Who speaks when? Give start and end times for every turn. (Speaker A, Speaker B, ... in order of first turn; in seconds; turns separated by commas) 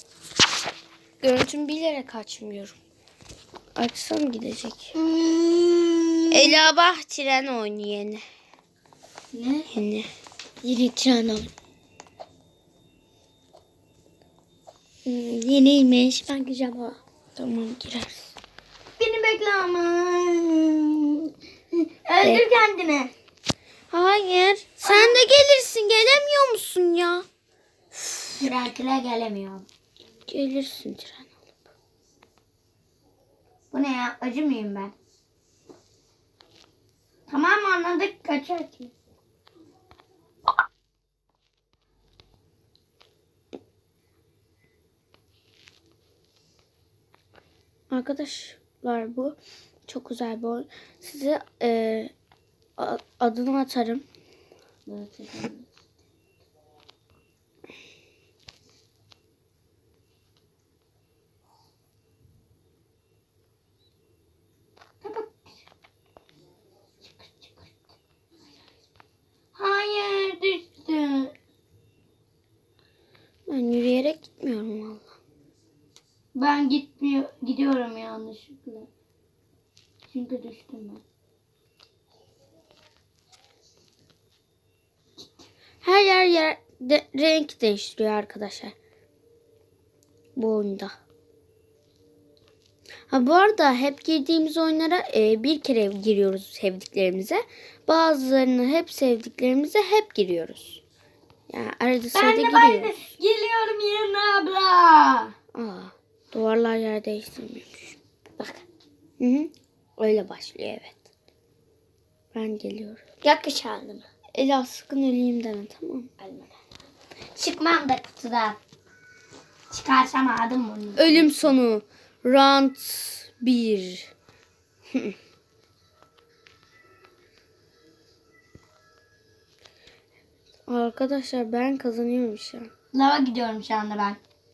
Speaker A: 1.2-2.8, Speaker A: 3.7-4.9, Speaker B: 4.9-6.6, Speaker A: 6.3-8.2, Speaker B: 9.3-9.7, Speaker A: 9.7-10.1, Speaker B: 10.6-11.5, Speaker B: 15.0-17.0, Speaker A: 17.4-18.3, Speaker B: 19.0-23.1, Speaker A: 23.9-27.2, Speaker B: 24.8-25.2, Speaker B: 28.4-29.6, Speaker A: 30.3-31.3, Speaker B: 33.7-34.9, Speaker B: 37.3-38.9, Speaker A: 47.9-52.1, Speaker A: 52.8-54.0, Speaker B: 54.9-55.6, Speaker B: 65.0-65.4, Speaker B: 67.2-67.7, Speaker B: 69.5-71.3, Speaker A: 73.5-75.2, Speaker B: 76.3-78.9, Speaker B: 80.1-81.0, Speaker A: 85.8-88.7, Speaker A: 90.3-90.9, Speaker A: 93.1-100.8, Speaker A: 101.5-103.0, Speaker B: 102.1-105.3, Speaker A: 105.5-108.0, Speaker B: 108.4-108.6, Speaker A: 109.2-111.0, Speaker A: 112.3-113.0, Speaker B: 113.2-114.0, Speaker A: 114.3-116.1, Speaker B: 116.2-116.5, Speaker B: 117.3-118.6, Speaker B: 119.7-121.5, Speaker A: 121.0-124.1, Speaker A: 130.7-132.7, Speaker B: 132.9-134.2